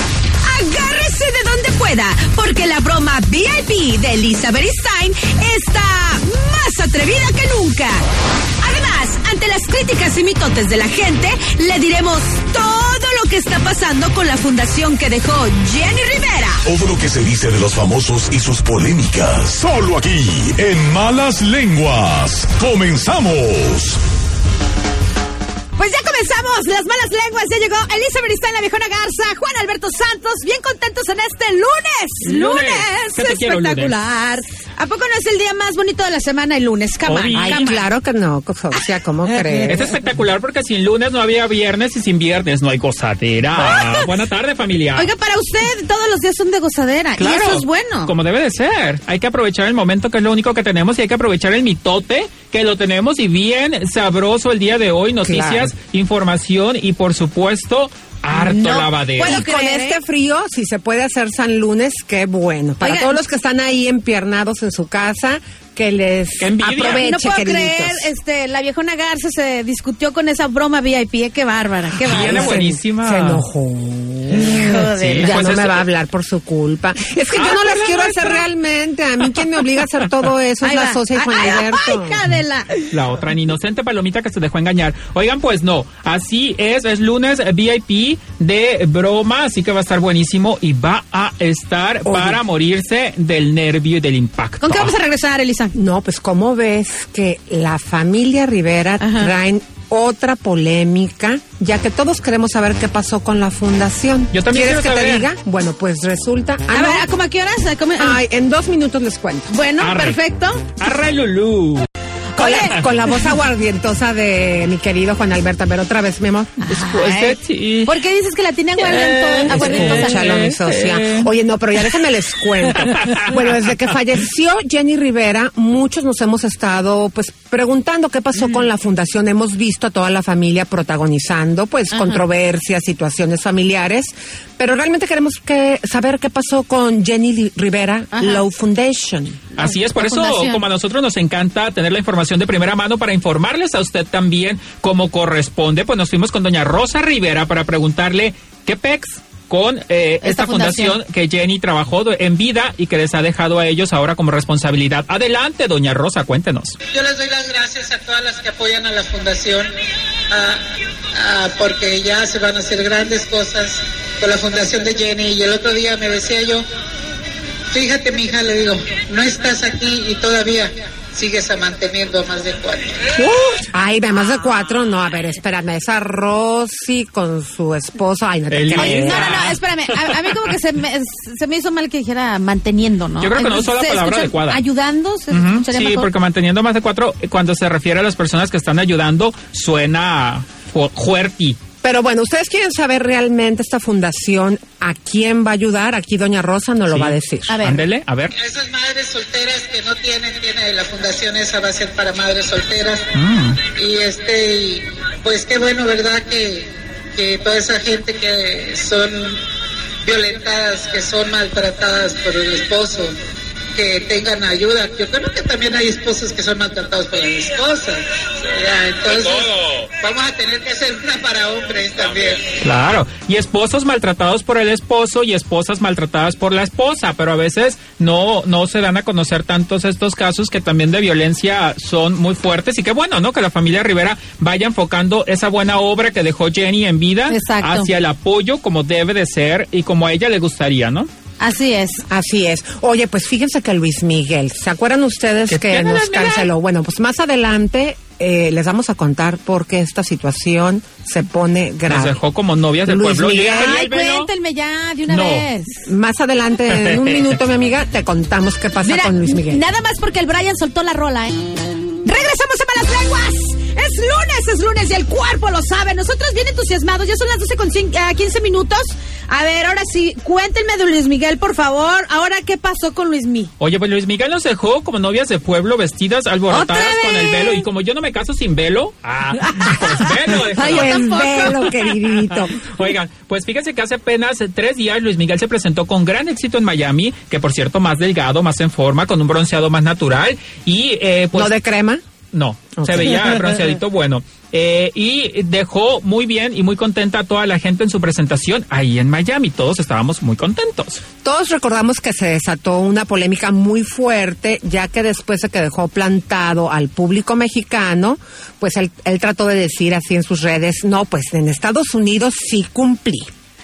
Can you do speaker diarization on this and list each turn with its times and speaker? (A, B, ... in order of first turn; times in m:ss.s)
0:00.5-0:08.0 A
0:08.6-0:16.6 A
0:16.6-0:24.0 B
0:25.8-0:37.9 A
0:32.2-0:34.0 C
0:37.1-0:37.6 C
0:37.3-0:39.9 D
0:39.7-0:45.1 C
0:43.6-0:44.0 A
0:45.0-0:48.1 A
0:47.2-0:59.4 C
0:55.2-0:55.7 D
0:58.3-1:00.0 A
0:59.2-1:08.1 D
1:02.8-1:03.2 A
1:06.4-1:07.1 C
1:06.9-1:12.6 A
1:12.1-1:13.4 C
1:12.1-1:22.2 D
1:14.4-1:15.4 A
1:14.5-1:15.9 C
1:17.3-1:18.5 C
1:20.6-1:22.9 A
1:22.9-1:35.0 C
1:32.0-1:32.4 D
1:34.6-1:35.8 A
1:35.7-1:47.1 D
1:39.0-1:39.3 A
1:44.3-1:45.3 C
1:46.7-1:48.2 A
1:48.0-1:49.6 D
1:49.5-1:50.6 A
1:49.8-1:50.2 C
1:50.8-1:51.9 C
1:52.4-1:52.9 A
1:52.4-1:56.5 D
1:56.6-2:00.2 A
1:56.7-1:57.9 C
1:58.8-2:01.3 C
1:59.5-2:19.4 D
2:02.7-2:03.3 C
2:08.4-2:08.6 A
2:11.9-2:12.2 A
2:18.1-2:18.4 A
2:19.6-2:36.8 C
2:19.6-2:20.6 A
2:30.2-2:31.0 A
2:36.9-2:39.7 E
2:40.3-2:40.6 E
2:41.2-2:46.6 E
2:47.7-2:53.0 E
2:53.2-2:59.5 D
2:58.5-3:00.5 C
2:58.8-3:06.1 A
3:03.2-3:04.6 C
3:05.3-3:11.6 C
3:11.8-3:17.6 D
3:16.9-3:18.3 C
3:17.5-3:17.8 A
3:18.4-3:23.0 E
3:23.1-3:23.6 C
3:23.8-3:29.4 E
3:30.0-3:33.1 E
3:33.8-3:38.0 E
3:38.5-3:42.4 E
3:42.6-4:01.1 C
3:57.3-3:57.9 A
4:01.4-4:02.0 A
4:02.1-4:12.2 D
4:05.5-4:06.5 C
4:11.9-4:14.3 C
4:12.9-4:13.8 D
4:13.6-4:15.8 A
4:15.1-4:15.5 C
4:15.9-4:19.6 D
4:16.7-4:17.4 C
4:18.8-4:21.4 A
4:22.0-4:33.5 A
4:33.6-4:51.6 C
4:36.5-4:37.6 A
4:39.4-4:41.6 A
4:40.6-4:42.6 D
4:51.3-4:52.0 D
4:52.3-5:01.0 C
4:52.8-4:53.7 D
5:01.2-5:13.3 D